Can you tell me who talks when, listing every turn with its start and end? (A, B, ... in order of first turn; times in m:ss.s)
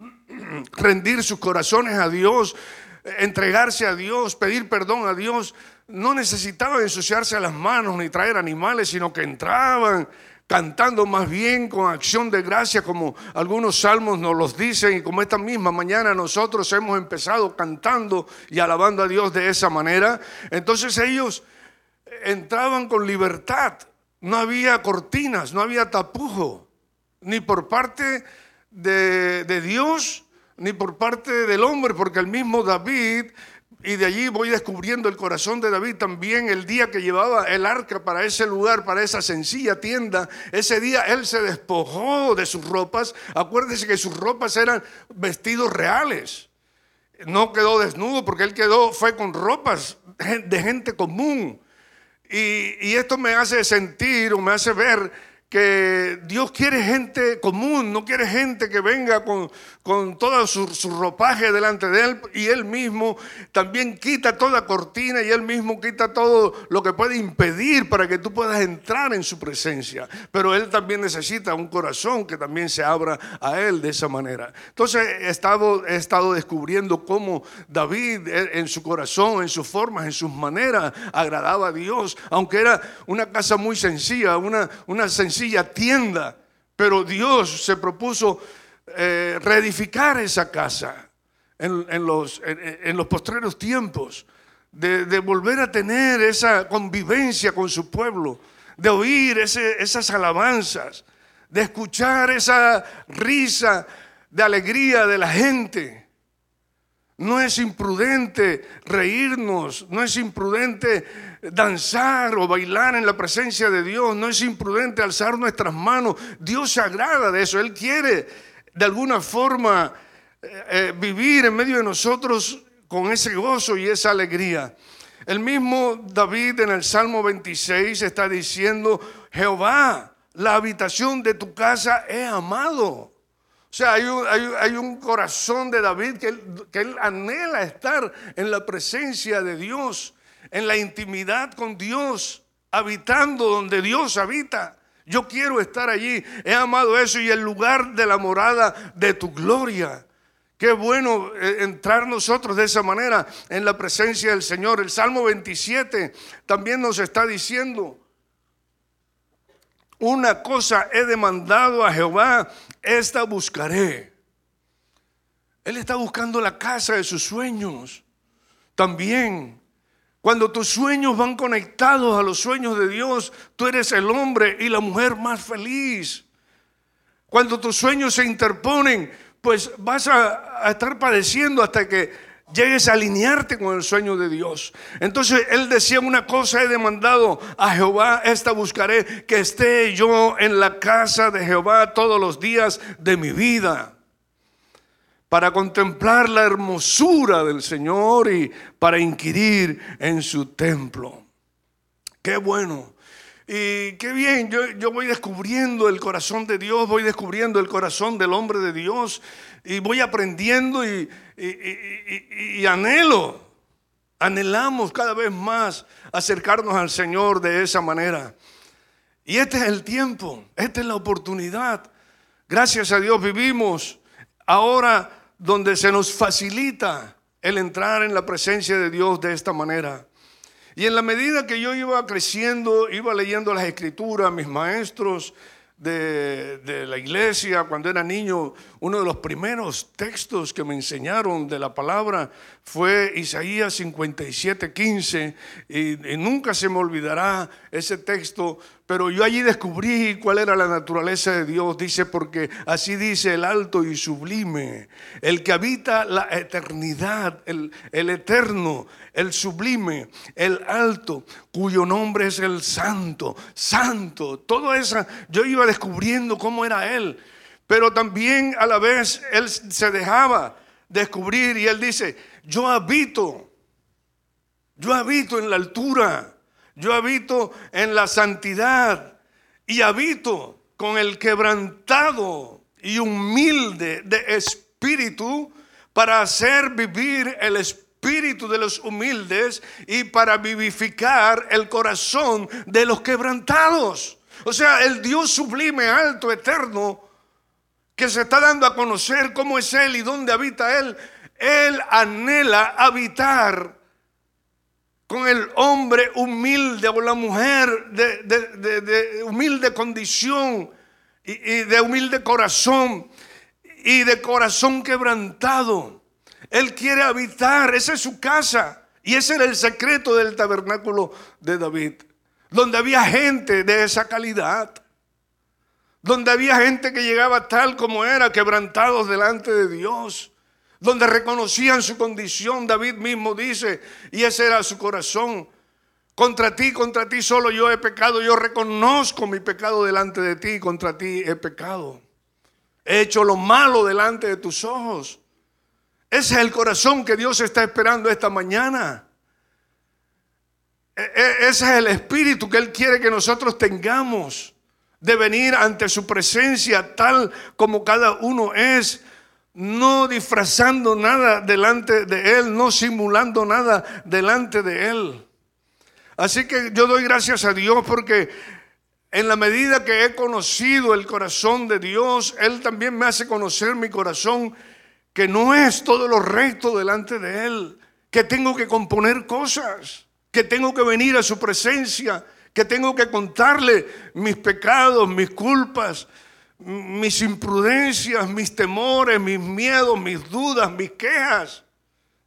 0:00.3-0:21.4 A
0:22.1-0:26.7 A
0:27.2-0:46.5 A
0:47.2-0:51.6 A
0:52.3-1:31.1 A
1:31.6-1:46.1 A
1:47.2-2:04.7 A
2:05.3-2:13.1 A
2:13.7-2:30.0 A
2:30.6-2:38.0 A
2:40.0-2:44.1 A
2:45.6-2:48.0 A
2:48.8-2:49.6 A
2:50.2-2:56.2 A
2:57.3-3:14.0 A
3:15.3-3:21.2 A
3:22.2-3:23.0 A
3:23.5-3:33.5 A
3:34.2-3:38.4 A
3:39.2-3:41.9 A
3:42.5-3:50.1 A
3:50.8-4:33.5 A
4:34.8-4:39.2 A
4:39.7-4:57.0 A
4:58.0-5:03.8 A
5:05.1-5:10.7 A
5:11.2-5:13.1 A
5:13.8-5:16.0 A
5:16.5-5:24.8 A
5:26.0-5:35.5 A
5:36.2-5:42.0 A
5:42.8-5:45.2 A
5:46.1-5:49.1 A
5:51.0-5:59.0 A
5:59.5-6:05.3 A
6:06.2-6:08.3 A
6:09.1-6:14.6 A
6:15.1-6:26.1 A
6:26.6-6:31.6 A